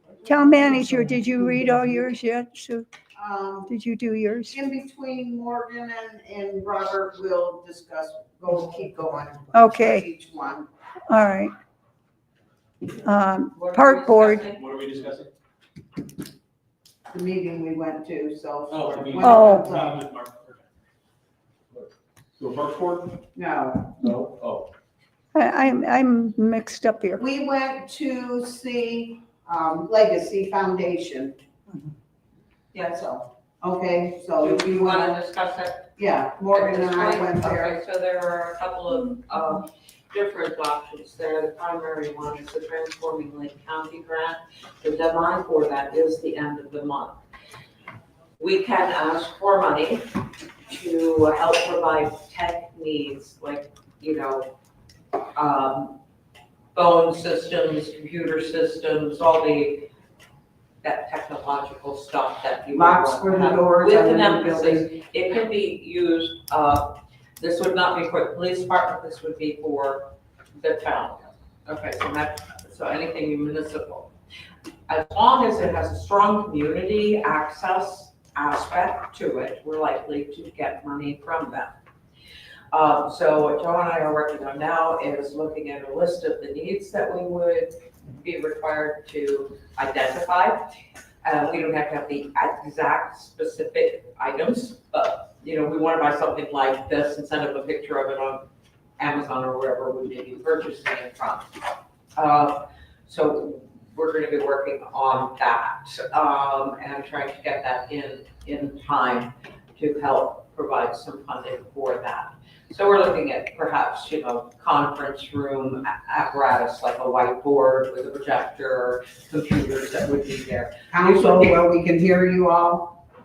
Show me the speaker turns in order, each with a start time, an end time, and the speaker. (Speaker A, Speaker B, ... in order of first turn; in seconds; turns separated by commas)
Speaker A: 0.2-2.9, Speaker B: 3.2-3.7, Speaker A: 3.7-4.5, Speaker B: 4.5-10.7, Speaker A: 9.5-10.1, Speaker A: 11.1-11.5, Speaker A: 13.0-14.5, Speaker C: 13.5-14.6, Speaker D: 14.5-15.3, Speaker B: 17.1-20.0, Speaker D: 18.7-20.7, Speaker A: 19.2-19.7, Speaker D: 22.4-23.2, Speaker B: 23.3-24.1, Speaker D: 24.0-24.7, Speaker A: 25.4-27.2, Speaker B: 27.2-31.4, Speaker B: 32.7-35.2, Speaker C: 34.4-35.9, Speaker B: 36.0-37.8, Speaker C: 36.5-47.2, Speaker C: 48.4-50.1, Speaker C: 50.7-54.5, Speaker C: 55.4-56.0, Speaker C: 56.7-59.9, Speaker C: 60.8-74.1, Speaker B: 62.7-64.9, Speaker C: 74.9-81.8, Speaker C: 82.7-90.7, Speaker C: 91.2-98.5, Speaker C: 99.0-101.5, Speaker C: 102.2-121.6, Speaker B: 120.9-123.0